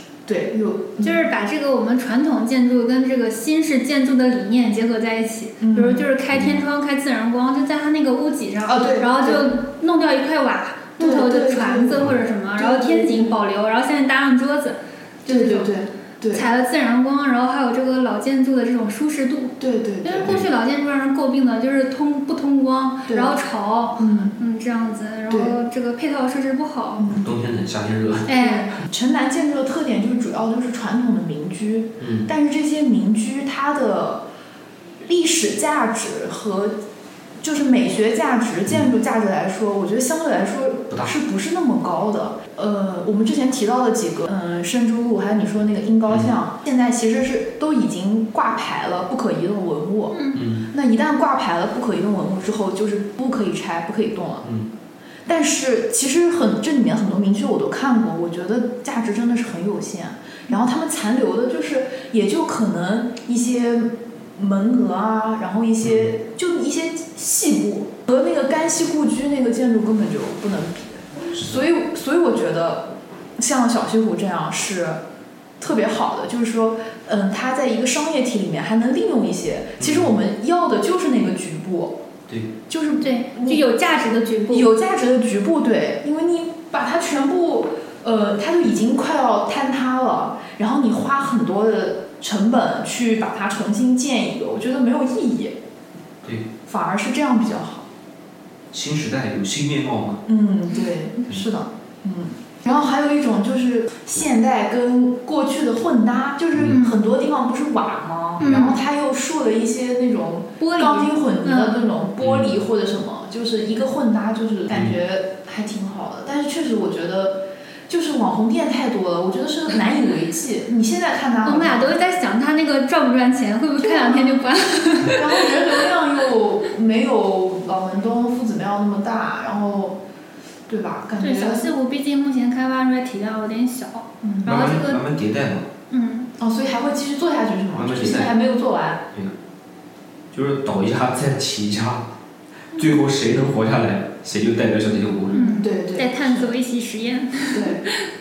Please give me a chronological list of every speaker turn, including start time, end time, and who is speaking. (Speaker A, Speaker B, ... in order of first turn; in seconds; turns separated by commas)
Speaker A: 0.3-1.2, Speaker B: 1.0-15.7, Speaker A: 5.6-6.1, Speaker C: 6.3-6.6, Speaker A: 8.7-9.5, Speaker A: 11.0-13.4, Speaker A: 15.3-16.5, Speaker B: 16.3-27.0, Speaker A: 19.6-20.4, Speaker A: 23.1-23.4, Speaker A: 24.0-24.4, Speaker A: 25.3-25.6, Speaker A: 27.0-27.3, Speaker C: 27.1-28.3, Speaker B: 28.3-28.7, Speaker A: 28.4-34.3, Speaker C: 32.0-32.3, Speaker A: 35.0-36.8, Speaker A: 37.4-54.5, Speaker B: 50.1-50.4, Speaker C: 50.3-50.7, Speaker C: 54.4-54.7, Speaker A: 55.3-75.0, Speaker C: 71.3-71.6, Speaker A: 75.6-82.0, Speaker C: 79.8-80.1, Speaker A: 82.7-83.7, Speaker B: 83.0-84.7, Speaker A: 84.5-95.5, Speaker A: 96.7-97.9, Speaker C: 98.7-100.2, Speaker A: 100.3-122.0, Speaker B: 106.6-107.0, Speaker B: 108.4-108.8, Speaker C: 108.4-108.7, Speaker B: 110.6-111.9, Speaker C: 112.2-112.5, Speaker C: 114.7-115.0, Speaker B: 121.5-125.8, Speaker A: 123.8-124.5, Speaker A: 125.0-130.0, Speaker A: 130.7-131.7, Speaker B: 131.2-135.0, Speaker A: 134.2-134.6, Speaker C: 134.4-135.7, Speaker B: 135.9-136.3, Speaker A: 136.4-139.1, Speaker C: 137.7-138.3, Speaker C: 140.3-142.1, Speaker C: 142.7-145.5, Speaker B: 145.3-148.1, Speaker A: 145.5-146.6, Speaker A: 147.5-147.8